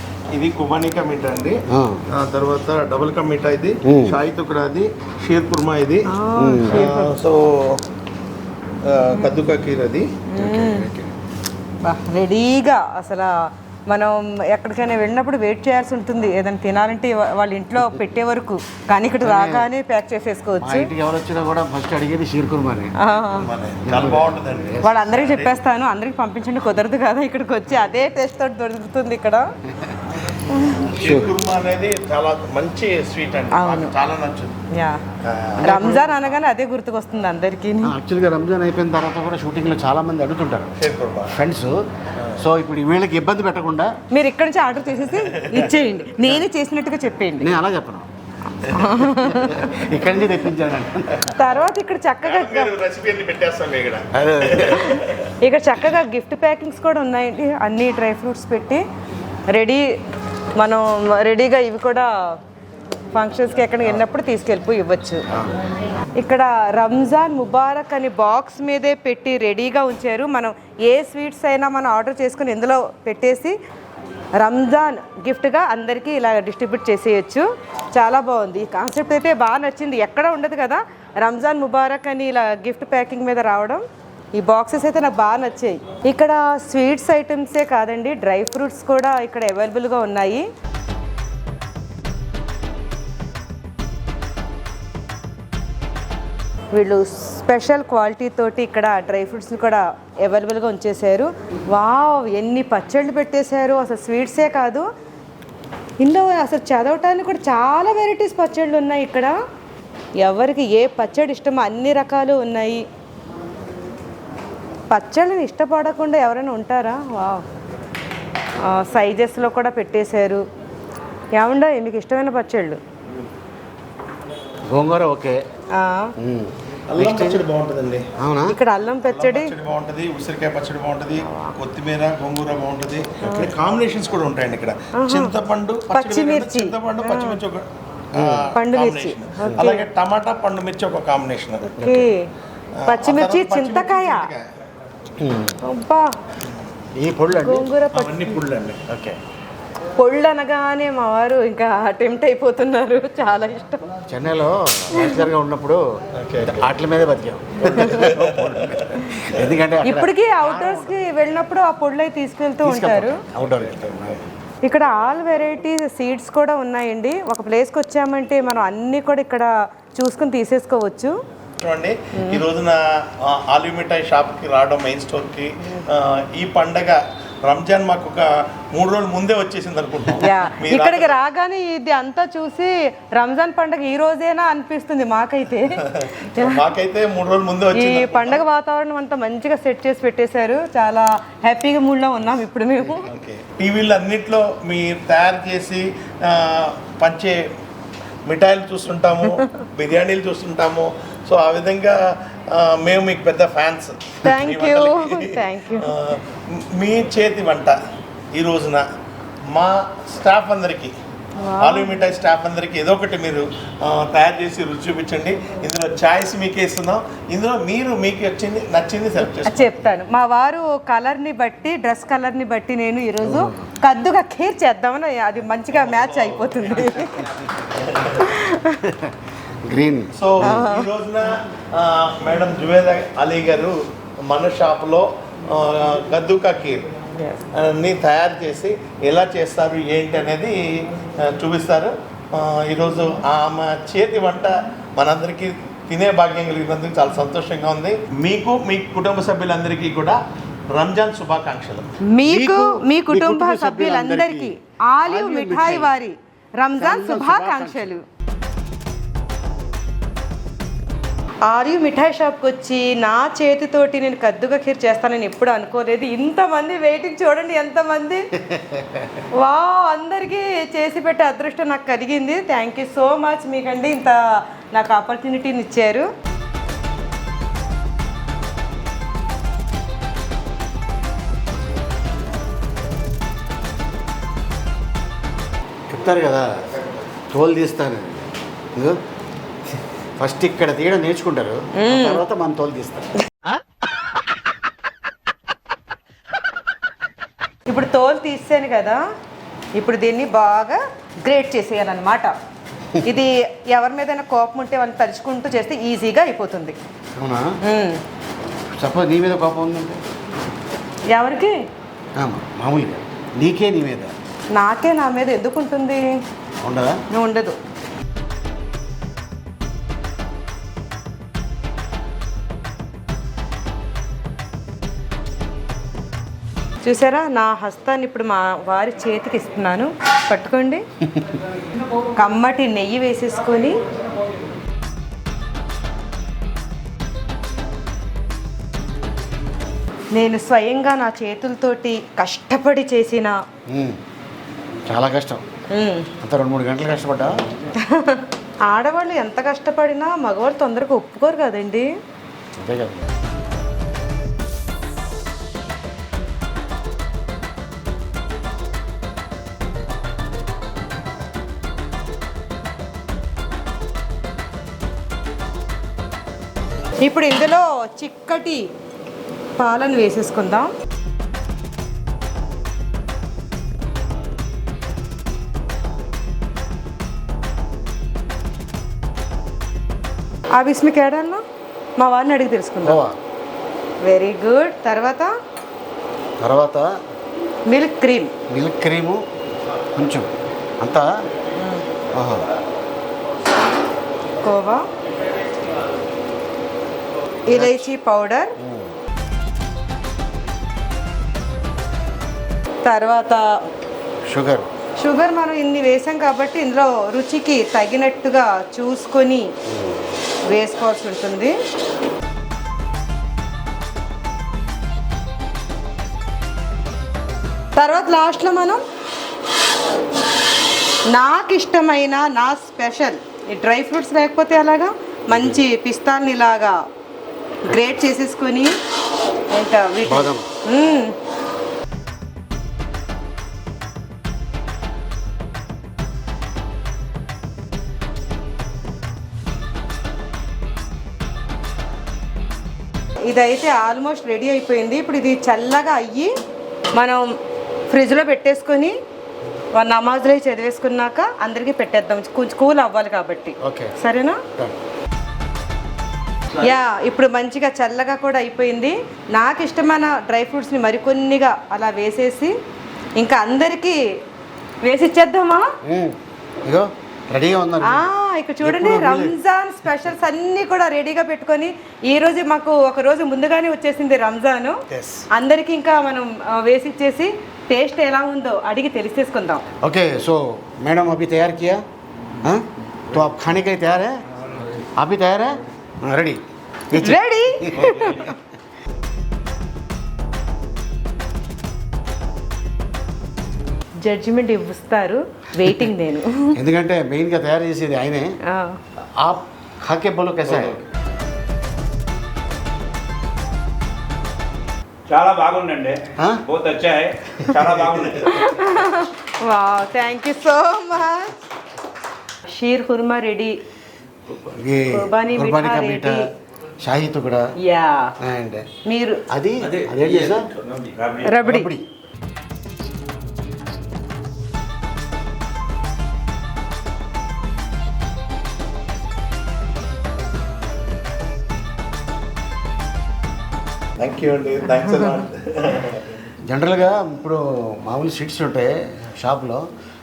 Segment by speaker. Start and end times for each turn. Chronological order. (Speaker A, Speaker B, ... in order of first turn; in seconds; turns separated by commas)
Speaker A: 0.3-6.1, Speaker B: 1.7-2.0, Speaker B: 3.8-4.2, Speaker C: 6.1-7.1, Speaker B: 6.3-6.8, Speaker A: 6.7-7.8, Speaker A: 8.8-10.1, Speaker C: 10.3-10.8, Speaker B: 10.4-11.1, Speaker C: 11.8-20.9, Speaker B: 19.2-19.7, Speaker B: 20.6-22.9, Speaker C: 23.0-23.5, Speaker A: 23.4-25.6, Speaker B: 23.8-24.9, Speaker C: 24.8-29.5, Speaker B: 29.7-30.0, Speaker C: 30.5-30.9, Speaker A: 30.8-34.6, Speaker B: 31.0-31.4, Speaker C: 33.5-33.9, Speaker C: 34.7-35.0, Speaker A: 35.2-36.0, Speaker B: 35.6-36.1, Speaker C: 35.6-37.9, Speaker B: 37.8-40.7, Speaker A: 40.8-41.3, Speaker B: 41.3-41.8, Speaker B: 42.4-43.9, Speaker C: 44.1-47.5, Speaker A: 45.3-45.7, Speaker B: 47.4-48.1, Speaker C: 48.6-49.7, Speaker B: 49.0-51.3, Speaker C: 51.4-52.7, Speaker A: 52.2-55.3, Speaker B: 54.1-55.0, Speaker C: 54.8-58.8, Speaker C: 59.5-59.9, Speaker C: 60.6-62.1, Speaker C: 63.1-65.2, Speaker C: 66.2-73.6, Speaker C: 74.4-83.8, Speaker C: 84.3-90.5, Speaker C: 96.7-104.8, Speaker C: 106.0-109.3, Speaker C: 110.2-112.8, Speaker C: 114.9-117.5, Speaker C: 118.6-120.4, Speaker C: 121.3-122.8, Speaker B: 124.7-125.4, Speaker C: 125.7-126.1, Speaker B: 126.2-127.4, Speaker A: 126.9-128.1, Speaker B: 128.2-128.6, Speaker C: 128.5-129.5, Speaker A: 129.0-141.7, Speaker C: 133.2-133.5, Speaker C: 135.0-135.3, Speaker C: 135.9-137.4, Speaker B: 138.1-138.5, Speaker C: 138.5-139.8, Speaker C: 141.7-142.2, Speaker B: 141.8-142.1, Speaker A: 142.8-144.4, Speaker C: 142.8-144.3, Speaker B: 145.2-145.6, Speaker C: 145.6-146.1, Speaker B: 147.0-147.7, Speaker C: 147.3-148.4, Speaker A: 147.9-148.8, Speaker B: 148.9-149.2, Speaker C: 150.0-153.8, Speaker B: 154.1-155.8, Speaker A: 156.1-156.6, Speaker B: 156.4-160.9, Speaker A: 157.6-159.5, Speaker C: 159.8-163.2, Speaker B: 162.6-164.3, Speaker A: 163.6-164.0, Speaker C: 164.7-171.1, Speaker A: 171.6-181.2, Speaker C: 172.1-172.4, Speaker C: 180.2-186.6, Speaker A: 185.8-188.4, Speaker C: 187.7-193.1, Speaker A: 193.0-197.5, Speaker A: 198.3-207.8, Speaker C: 204.2-205.9, Speaker A: 208.3-208.8, Speaker A: 209.5-210.9, Speaker C: 211.4-211.9, Speaker A: 211.6-219.8, Speaker C: 219.4-227.2, Speaker B: 223.2-223.7, Speaker A: 225.7-228.4, Speaker C: 228.2-228.8, Speaker B: 228.8-230.6, Speaker A: 230.2-236.8, Speaker C: 230.4-230.9, Speaker C: 237.2-237.4, Speaker A: 237.5-250.2, Speaker A: 250.7-252.0, Speaker C: 252.1-258.0, Speaker B: 252.2-254.5, Speaker B: 255.0-255.9, Speaker B: 256.8-257.9, Speaker C: 261.4-268.3, Speaker B: 268.4-269.2, Speaker C: 269.4-274.2, Speaker C: 274.7-276.1, Speaker B: 285.9-289.0, Speaker B: 290.2-293.1, Speaker C: 291.8-292.2, Speaker C: 297.7-299.0, Speaker C: 299.8-302.3, Speaker C: 303.0-306.8, Speaker B: 307.2-307.5, Speaker C: 307.6-308.0, Speaker B: 308.7-310.0, Speaker C: 311.1-311.6, Speaker B: 312.2-314.1, Speaker C: 314.5-316.1, Speaker B: 316.6-317.0, Speaker C: 317.1-317.6, Speaker C: 326.8-330.8, Speaker B: 331.0-331.3, Speaker C: 332.1-333.8, Speaker C: 340.1-343.4, Speaker B: 343.7-344.0, Speaker B: 344.9-345.4, Speaker C: 345.7-346.1, Speaker B: 346.2-347.4, Speaker C: 347.8-351.9, Speaker B: 352.6-353.1, Speaker C: 367.0-368.7, Speaker C: 369.6-370.7, Speaker C: 380.5-381.4, Speaker C: 382.0-383.0, Speaker B: 382.8-383.2, Speaker C: 384.0-385.3, Speaker B: 386.4-386.9, Speaker C: 387.7-388.3, Speaker B: 388.5-389.2, Speaker B: 389.9-391.1, Speaker C: 391.6-391.8, Speaker B: 392.1-392.4, Speaker C: 394.4-394.8, Speaker B: 397.5-397.9, Speaker C: 397.5-398.6, Speaker B: 398.6-398.9, Speaker C: 402.8-403.4, Speaker B: 404.2-404.7, Speaker C: 405.0-409.5, Speaker B: 409.6-410.1, Speaker C: 410.5-411.6, Speaker C: 417.8-418.8, Speaker C: 421.1-426.8, Speaker B: 425.3-425.6, Speaker C: 427.7-428.7, Speaker C: 429.5-431.1, Speaker B: 430.1-430.5, Speaker C: 443.2-446.3, Speaker C: 446.9-447.2, Speaker C: 447.9-448.9, Speaker C: 449.7-454.4, Speaker B: 453.6-453.9, Speaker C: 456.6-462.6, Speaker C: 463.2-464.1, Speaker C: 464.8-465.7, Speaker B: 465.8-468.1, Speaker C: 467.8-474.8, Speaker B: 468.6-469.3, Speaker B: 474.9-475.2, Speaker C: 475.3-479.6, Speaker B: 479.8-481.8, Speaker B: 482.4-484.2, Speaker B: 485.0-488.3, Speaker C: 486.9-488.3, Speaker C: 494.0-496.6, Speaker B: 496.5-498.3, Speaker C: 498.5-498.8, Speaker B: 499.2-500.8, Speaker D: 500.5-500.8, Speaker D: 505.1-508.5, Speaker B: 506.2-506.4, Speaker C: 508.3-511.3, Speaker C: 512.5-513.6, Speaker B: 514.5-516.2, Speaker C: 514.8-516.2, Speaker B: 516.8-517.5, Speaker C: 517.6-518.1, Speaker B: 518.2-518.7, Speaker C: 518.9-519.2, Speaker B: 519.3-520.5, Speaker D: 519.6-521.5, Speaker C: 521.2-521.7, Speaker B: 521.4-521.9, Speaker A: 534.0-536.1, Speaker B: 536.4-539.6